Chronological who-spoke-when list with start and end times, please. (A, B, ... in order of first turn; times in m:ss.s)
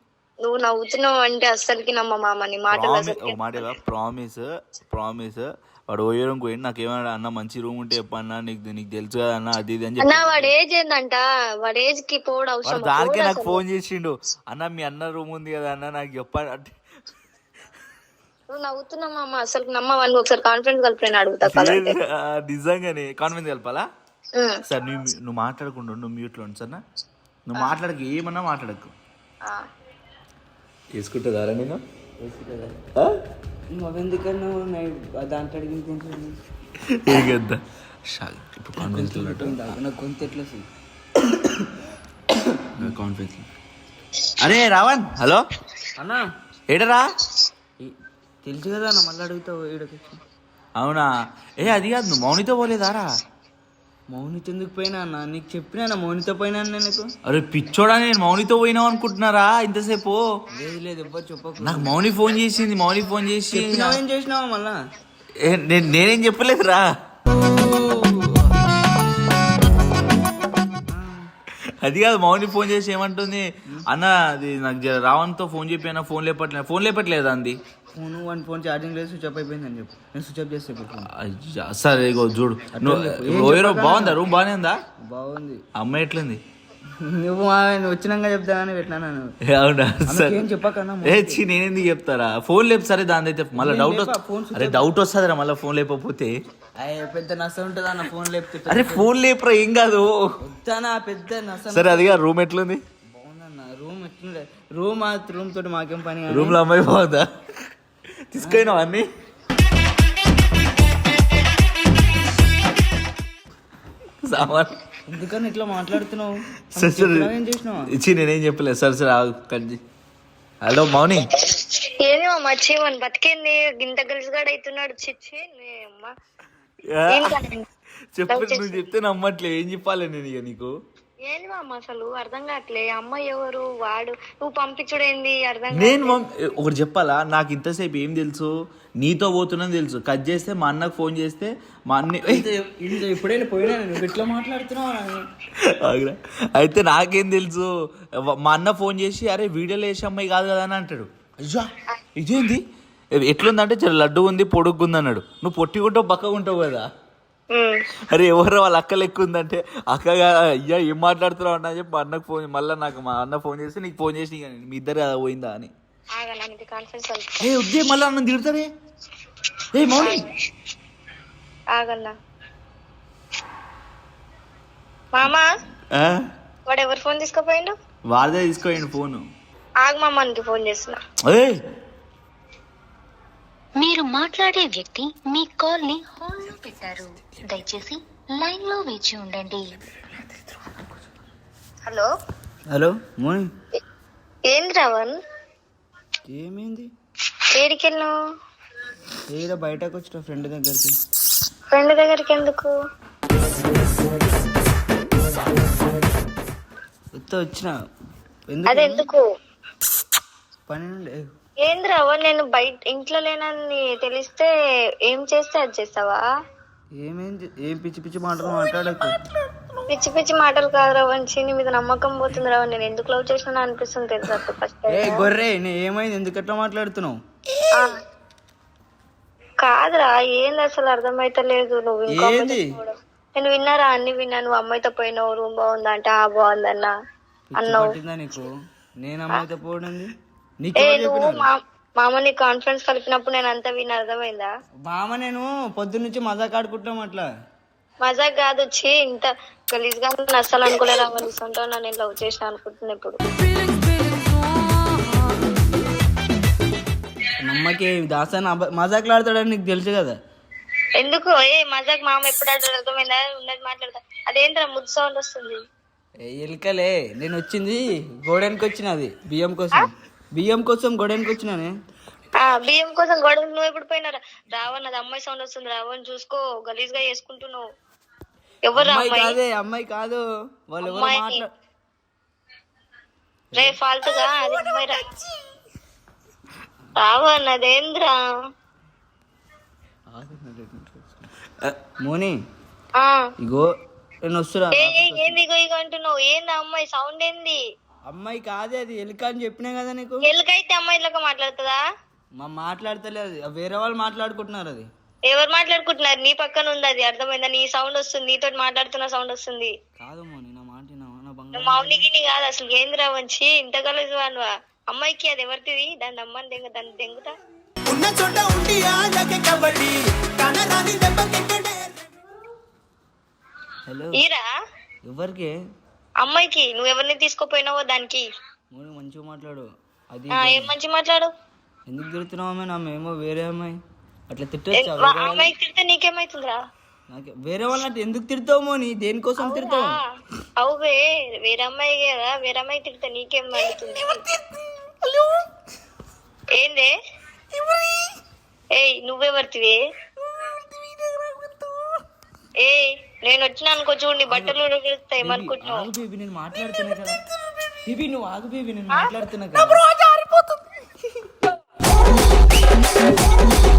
0:00.4-0:03.4 A
0:02.7-0:10.5 B
0:10.0-0:13.6 A
0:12.6-0:16.7 B
0:18.5-0:22.0 A
0:21.4-0:23.8 B
0:24.7-0:26.8 B
0:27.5-0:28.9 B
0:30.9-0:31.8 B
0:32.2-0:32.7 C
0:33.7-0:36.4 C
0:36.9-0:39.7 B
0:38.8-0:40.6 C
0:41.3-0:41.6 C
0:42.8-0:43.4 B
0:44.4-0:45.4 B
0:46.0-0:46.2 C
0:46.7-0:47.0 B
0:47.8-0:50.2 C
0:50.8-0:53.1 B
0:54.1-0:57.1 C
0:57.3-1:00.2 B
1:00.5-1:02.0 C
1:01.6-1:04.0 B
1:03.5-1:04.8 C
1:05.4-1:06.9 B
1:07.4-1:08.4 C
1:10.9-1:11.3 C
1:11.8-1:17.6 B
1:17.9-1:21.1 C
1:21.1-1:24.8 B
1:22.7-1:24.2 C
1:25.0-1:25.6 C
1:25.8-1:26.4 B
1:27.0-1:29.3 C
1:29.5-1:30.4 B
1:30.0-1:31.4 C
1:31.0-1:36.3 B
1:33.5-1:34.9 C
1:36.8-1:39.1 C
1:38.7-1:40.2 B
1:40.4-1:42.2 C
1:41.7-1:42.8 B
1:43.1-1:46.6 C
1:46.3-1:47.2 B
1:48.3-1:49.0 B
1:48.4-1:48.8 C
1:54.2-1:54.7 B
1:55.1-1:57.9 C
1:56.7-1:57.3 B
1:57.9-1:59.8 B
2:00.6-2:01.3 B
2:01.4-2:06.1 A
2:06.9-2:07.3 B
2:07.1-2:07.6 A
2:08.1-2:10.7 B
2:08.3-2:08.8 A
2:11.3-2:16.2 A
2:15.7-2:18.5 B
2:19.0-2:22.5 B
2:22.2-2:25.2 C
2:25.7-2:27.7 B
2:28.3-2:31.1 B
2:32.2-2:32.6 B
2:33.2-2:36.9 B
2:37.5-2:37.8 A
2:38.1-2:45.7 B
2:46.2-2:47.5 A
2:47.4-2:48.7 B
2:49.7-2:50.2 B
2:51.7-2:52.1 A
2:55.1-2:55.5 A
2:55.9-2:56.2 B
2:56.7-2:57.7 A
2:58.1-2:59.2 B
2:59.8-3:01.0 A
3:01.2-3:01.6 B
3:03.8-3:09.7 D
3:12.7-3:13.5 C
3:14.5-3:15.2 A
3:16.3-3:16.9 C
3:17.5-3:18.1 A
3:19.3-3:20.9 C
3:21.7-3:22.7 A
3:27.1-3:27.7 C
3:28.5-3:29.0 C
3:28.7-3:29.2 A
3:30.7-3:31.2 C
3:31.6-3:34.5 A
3:35.1-3:36.2 A
3:37.0-3:39.2 C
3:39.9-3:45.3 A
3:44.9-3:47.2 C
3:49.6-3:56.9 A
3:52.1-3:52.7 C
3:57.5-4:01.5 C
3:57.6-3:57.9 A
4:00.8-4:04.5 A
4:04.9-4:07.3 C
4:08.0-4:13.2 A
4:17.4-4:20.2 C
4:21.0-4:25.6 A
4:26.2-4:31.7 C
4:32.4-4:37.6 A
4:38.7-4:39.4 A
4:38.7-4:41.5 C
4:40.8-4:41.4 A
4:43.5-4:45.1 A
4:47.0-4:48.2 A
4:50.1-4:51.2 C
4:52.0-4:52.4 C
4:53.0-4:53.2 A
4:53.4-4:53.7 C
4:54.3-4:55.4 C
4:54.7-4:57.6 A
4:58.1-5:00.3 C
5:00.2-5:01.8 A
5:02.4-5:04.9 C
5:05.3-5:09.7 A
5:10.0-5:12.0 C
5:11.5-5:17.3 A
5:17.9-5:22.1 E
5:23.9-5:24.2 C
5:25.0-5:25.5 C
5:26.2-5:28.2 A
5:28.7-5:30.7 C
5:30.4-5:31.3 A
5:31.9-5:33.8 C
5:34.3-5:35.5 C
5:34.8-5:36.6 A
5:37.1-5:40.0 C
5:39.4-5:40.0 A
5:40.6-5:44.2 A
5:43.7-5:45.3 E
5:46.6-5:46.9 A
5:47.5-5:48.1 E
5:48.7-5:49.8 A
5:50.2-5:51.8 E
5:52.6-5:55.9 A
5:54.3-5:54.6 C
5:55.2-5:57.2 C
5:57.8-5:59.8 C
5:59.8-6:00.6 E
6:00.0-6:00.6 B